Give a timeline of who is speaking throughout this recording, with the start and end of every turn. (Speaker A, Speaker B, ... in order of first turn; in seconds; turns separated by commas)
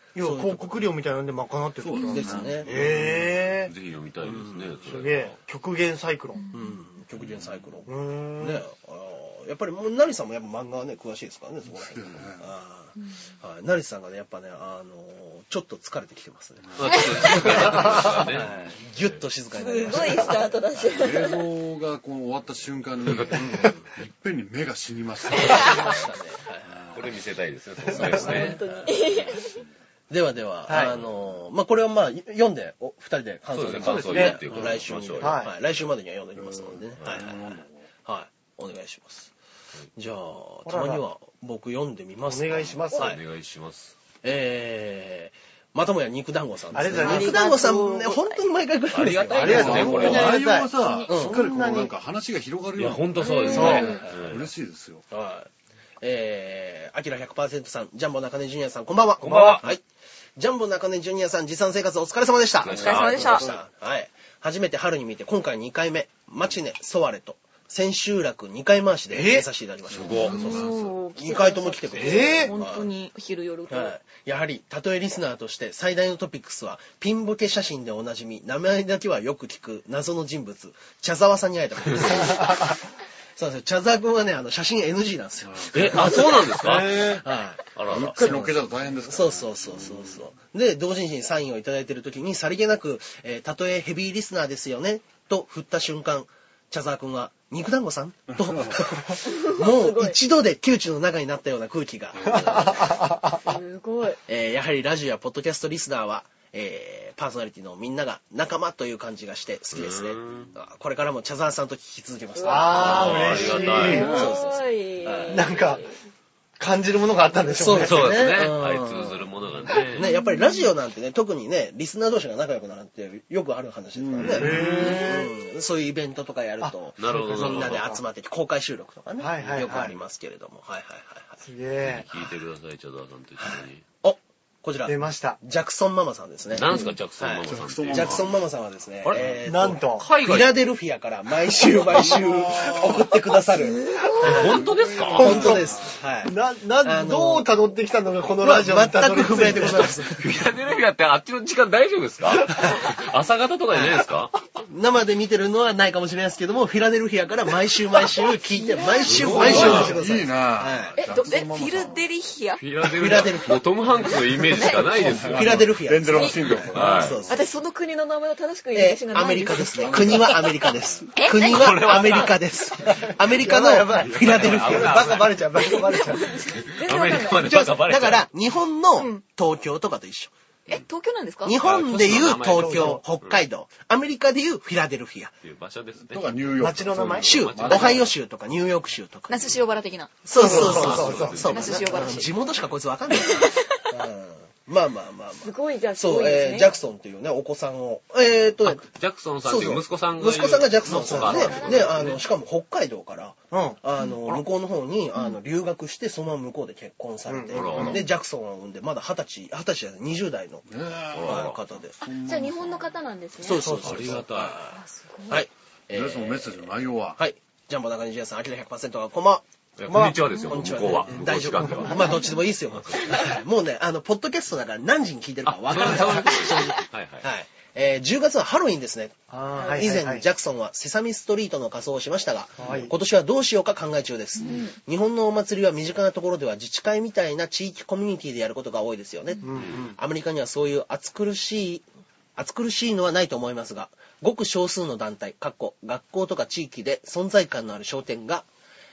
Speaker A: 0.1-3.7, Speaker B: 0.2-0.8, Speaker C: 1.8-3.1, Speaker B: 2.0-3.2, Speaker D: 2.7-5.4, Speaker B: 4.2-5.0, Speaker A: 4.8-6.4, Speaker E: 6.3-6.8, Speaker B: 6.5-20.6, Speaker A: 7.9-8.6, Speaker C: 11.7-12.5, Speaker C: 16.6-18.8, Speaker D: 16.8-19.2, Speaker E: 19.5-21.4, Speaker C: 20.8-26.0, Speaker B: 23.3-23.9, Speaker B: 25.4-26.9, Speaker E: 25.5-25.8, Speaker C: 26.6-27.2, Speaker D: 26.9-28.6, Speaker B: 27.9-29.2, Speaker E: 28.1-29.6, Speaker C: 28.1-28.6, Speaker C: 29.4-29.6, Speaker B: 30.1-39.3, Speaker A: 30.7-30.9, Speaker D: 33.5-35.4, Speaker A: 33.8-34.4, Speaker C: 33.9-35.0, Speaker A: 35.2-35.5, Speaker C: 36.4-37.9, Speaker B: 39.9-43.2, Speaker A: 40.6-41.0, Speaker A: 42.2-43.1, Speaker D: 42.9-43.9, Speaker B: 44.2-50.4, Speaker A: 46.7-47.6, Speaker E: 46.9-48.4, Speaker D: 48.9-50.4, Speaker A: 49.3-51.9, Speaker C: 49.3-55.0, Speaker E: 50.7-51.4, Speaker B: 51.1-51.4, Speaker D: 52.8-54.5, Speaker E: 53.2-53.9, Speaker A: 53.5-54.0, Speaker B: 53.5-54.1, Speaker B: 55.1-55.5, Speaker B: 56.0-59.8, Speaker D: 59.2-59.6, Speaker A: 59.2-59.7, Speaker B: 60.4-72.9, Speaker D: 62.6-63.5, Speaker E: 62.7-63.4, Speaker C: 62.7-63.5, Speaker A: 69.1-69.5, Speaker C: 69.9-71.0, Speaker D: 69.9-70.4, Speaker E: 70.2-74.0, Speaker A: 72.0-72.5, Speaker B: 73.7-82.8, Speaker B: 83.3-103.0, Speaker C: 85.4-86.1, Speaker D: 85.7-87.2, Speaker A: 86.6-87.2, Speaker D: 87.7-88.3, Speaker C: 87.8-90.3, Speaker C: 98.3-98.8, Speaker E: 99.2-100.2, Speaker C: 102.2-102.8, Speaker A: 102.2-103.6, Speaker E: 103.4-104.2, Speaker B: 104.2-115.6, Speaker D: 109.7-110.5, Speaker E: 112.4-115.9, Speaker A: 112.4-114.3, Speaker D: 112.7-114.2, Speaker A: 115.3-115.8, Speaker A: 116.6-118.1, Speaker B: 117.5-131.4, Speaker D: 117.8-120.1, Speaker E: 120.0-120.7, Speaker C: 123.9-124.9, Speaker D: 124.2-124.9, Speaker A: 124.3-125.3, Speaker E: 124.5-125.3, Speaker A: 126.6-128.0, Speaker D: 127.0-127.8, Speaker A: 129.2-130.0, Speaker A: 131.4-132.1, Speaker D: 131.8-133.8, Speaker B: 133.4-144.5, Speaker A: 134.8-135.4, Speaker D: 136.5-138.3, Speaker C: 137.5-138.4, Speaker C: 139.2-139.4, Speaker A: 139.4-140.1, Speaker D: 139.9-140.6, Speaker C: 142.0-143.0, Speaker E: 143.8-144.5, Speaker A: 144.0-145.7, Speaker D: 144.2-145.6, Speaker C: 144.4-146.0, Speaker B: 145.2-147.5, Speaker A: 146.2-150.1, Speaker B: 148.4-150.2, Speaker D: 149.4-154.3, Speaker B: 153.7-154.1, Speaker B: 154.6-161.0, Speaker E: 158.2-159.9, Speaker D: 159.0-160.0, Speaker C: 159.2-162.0, Speaker E: 161.0-162.6, Speaker D: 162.6-165.8, Speaker B: 162.8-163.6, Speaker E: 164.0-164.9, Speaker C: 164.6-167.4, Speaker B: 165.3-167.4, Speaker E: 166.1-166.5, Speaker D: 166.7-167.2, Speaker E: 167.3-170.6, Speaker B: 168.7-175.2, Speaker C: 169.7-171.1, Speaker E: 171.1-172.2, Speaker D: 171.3-172.9, Speaker A: 173.0-176.6, Speaker D: 173.9-175.7, Speaker E: 175.5-177.7, Speaker D: 176.4-178.3, Speaker B: 177.3-180.3, Speaker E: 179.0-179.2, Speaker E: 180.7-181.6, Speaker B: 181.4-185.3, Speaker D: 181.6-183.4, Speaker A: 182.5-183.0, Speaker D: 185.4-186.5, Speaker C: 186.1-188.1, Speaker A: 186.6-187.5, Speaker B: 187.2-189.6, Speaker D: 187.4-188.1, Speaker E: 189.3-192.4, Speaker B: 190.2-198.9, Speaker A: 190.3-191.6, Speaker D: 190.4-192.2, Speaker E: 193.2-193.8, Speaker E: 195.4-196.7, Speaker D: 198.6-202.2, Speaker B: 199.4-210.7, Speaker E: 200.9-202.2, Speaker A: 200.9-201.3, Speaker A: 203.5-204.4, Speaker A: 207.3-208.0, Speaker D: 207.5-208.0, Speaker C: 207.7-208.0, Speaker C: 210.7-213.0, Speaker D: 211.1-211.6, Speaker B: 211.2-211.9, Speaker E: 212.0-213.8, Speaker B: 213.4-229.2, Speaker A: 213.6-214.2, Speaker D: 213.7-214.6, Speaker E: 214.6-215.5, Speaker C: 215.9-217.2, Speaker D: 219.8-223.0, Speaker A: 219.9-220.2, Speaker E: 220.2-220.7, Speaker E: 221.8-222.4, Speaker E: 222.9-223.4, Speaker D: 225.5-227.3, Speaker E: 226.0-226.8, Speaker A: 229.3-230.2, Speaker E: 229.5-230.0, Speaker B: 229.7-241.8, Speaker A: 232.6-232.9, Speaker E: 234.4-234.8, Speaker A: 239.4-240.0, Speaker D: 239.5-239.9, Speaker B: 242.3-248.5